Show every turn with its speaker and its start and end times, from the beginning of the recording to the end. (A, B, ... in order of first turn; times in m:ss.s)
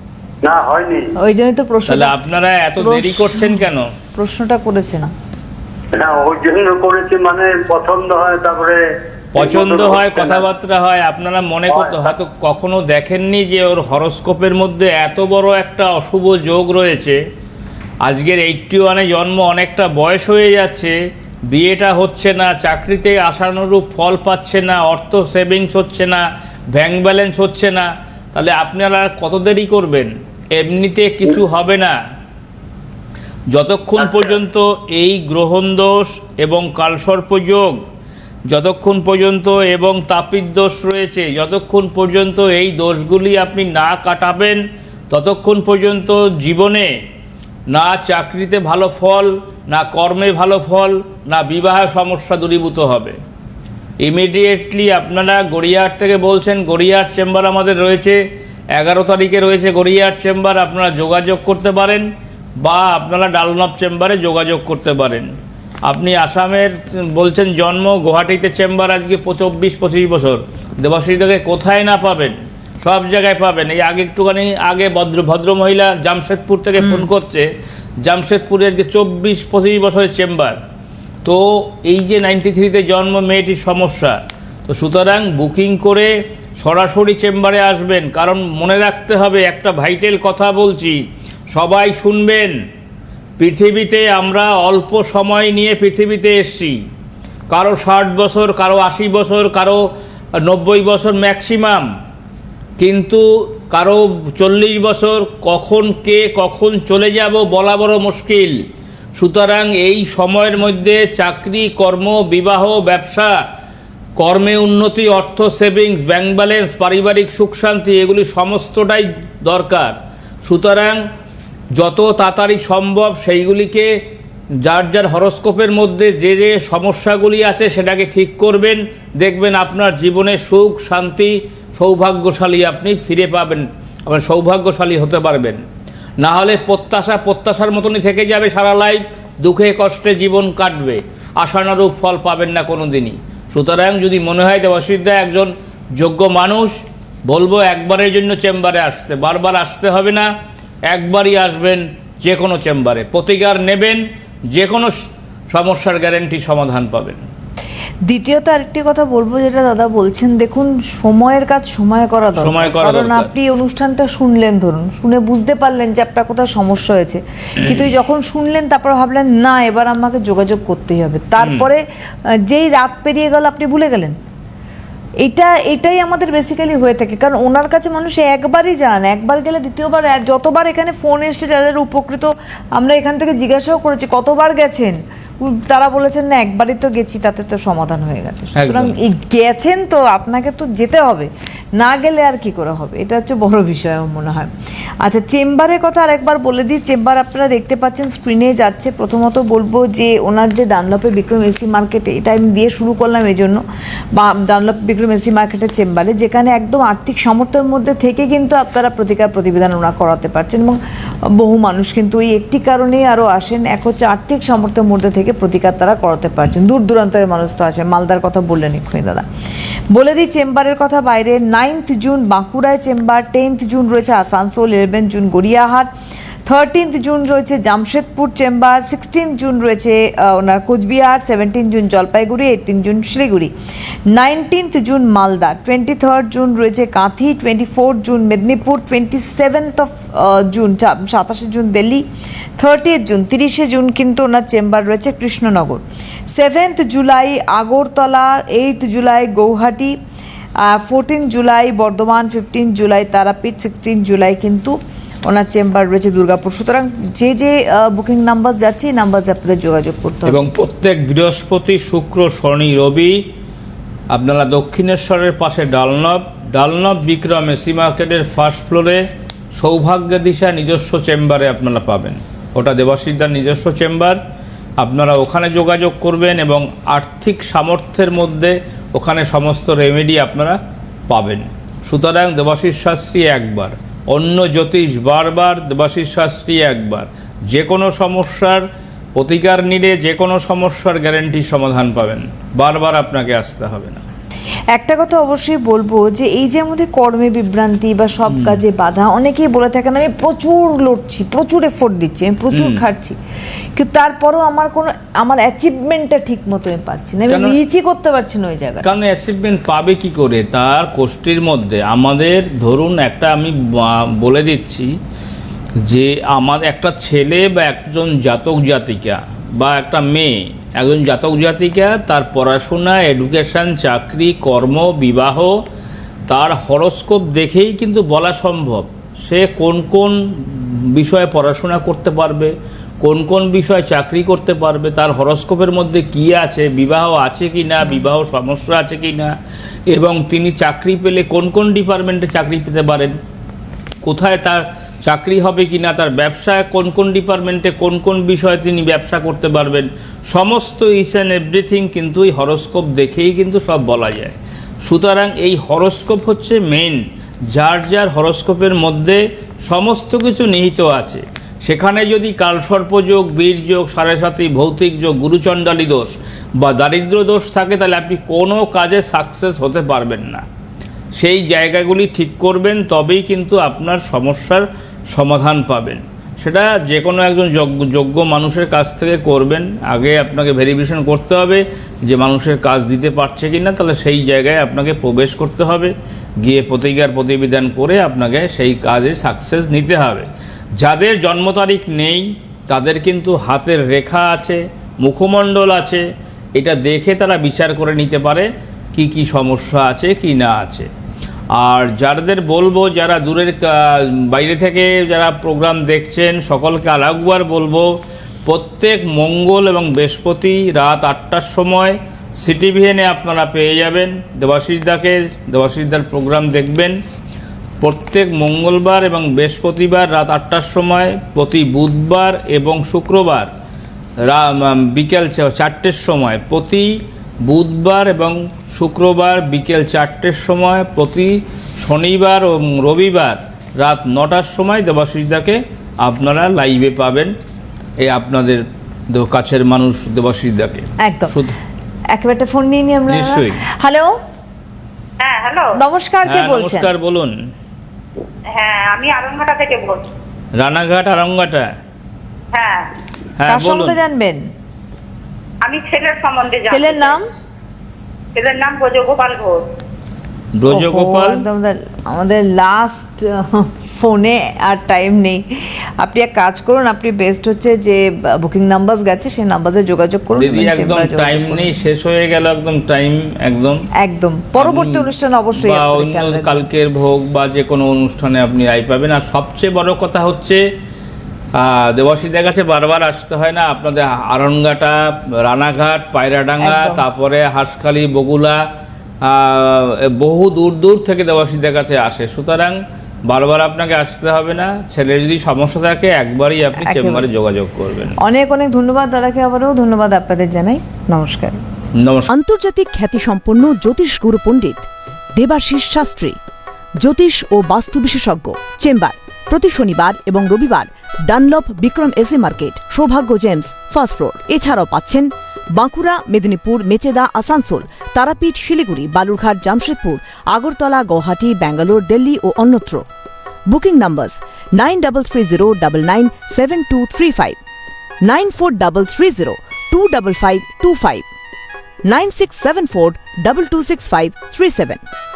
0:00.4-0:01.1 A
0:01.2-0:02.2 B
0:01.9-0:03.9 C
0:02.8-0:03.6 B
0:04.2-0:05.1 B
0:05.9-0:08.8 A
0:09.3-0:17.2 C
0:09.4-0:10.4 A
0:11.7-0:12.1 A
0:18.0-0:21.0 C
0:21.5-0:32.0 C
0:33.5-0:37.8 C
0:38.5-0:46.9 C
0:47.7-0:53.2 C
0:54.0-0:58.2 C
0:58.8-1:02.1 C
1:02.6-1:05.3 C
1:05.9-1:17.5 C
1:18.0-1:20.6 C
1:21.2-1:31.0 C
1:31.5-1:32.6 C
1:33.4-1:36.8 C
1:37.5-1:39.8 C
1:40.4-1:41.9 C
1:42.8-1:48.6 C
1:49.2-1:53.4 C
1:54.2-2:01.0 C
2:01.8-2:03.9 C
2:04.6-2:15.6 C
2:16.2-2:30.3 C
2:30.9-2:35.0 C
2:35.5-2:37.2 C
2:38.1-2:51.8 B
2:42.4-2:43.3 C
2:47.6-2:47.9 C
2:51.4-2:51.7 C
2:52.4-2:54.2 B
2:55.2-3:14.5 B
3:08.6-3:09.0 C
3:15.0-3:23.6 B
3:24.2-3:30.8 B
3:31.3-3:39.3 B
3:39.9-3:45.9 B
3:46.5-3:53.5 B
3:54.1-4:02.0 B
4:02.6-4:10.0 B
4:10.6-4:14.8 B
4:15.3-4:20.4 B
4:20.3-4:23.2 C
4:24.1-4:29.0 C
4:29.6-4:34.2 C
4:34.8-4:48.6 C
4:49.2-4:54.0 C
4:54.7-5:03.2 B
4:58.3-4:58.6 C
5:02.5-5:02.8 C
5:03.8-5:08.9 B
5:07.3-5:07.6 C
5:08.8-5:14.9 C
5:15.8-5:25.6 C
5:26.3-5:39.3 C
5:39.9-5:43.2 C
5:44.0-5:57.0 C
5:57.5-6:10.4 C
6:11.2-6:30.3 C
6:30.8-6:36.1 C
6:36.6-6:40.9 C
6:41.6-6:47.9 C
6:48.5-6:57.0 C
6:57.8-7:03.5 C
7:04.2-7:06.9 C
7:07.4-7:17.3 C
7:18.0-7:21.6 C
7:21.0-7:21.4 B
7:22.1-7:24.1 B
7:23.1-7:23.6 C
7:25.2-7:25.7 D
7:25.8-7:26.9 B
7:26.2-7:27.3 C
7:28.6-7:30.1 D
7:30.6-7:31.7 C
7:32.5-7:32.9 D
7:33.4-7:34.0 C
7:33.5-7:34.4 B
7:35.6-7:37.2 D
7:36.7-7:37.3 B
7:38.4-7:39.7 D
7:40.6-7:41.4 C
7:40.7-7:45.4 B
7:46.0-7:51.7 B
7:50.4-7:53.8 C
7:54.0-7:56.6 B
7:54.6-8:00.6 C
8:01.6-8:08.6 C
8:06.6-8:07.0 B
8:09.2-8:18.2 C
8:16.8-8:17.3 B
8:18.2-8:21.6 B
8:22.0-8:22.3 C
8:22.3-8:26.4 E
8:27.0-8:43.0 E
8:43.7-8:47.6 E
8:48.2-8:51.2 E
8:52.0-8:55.0 E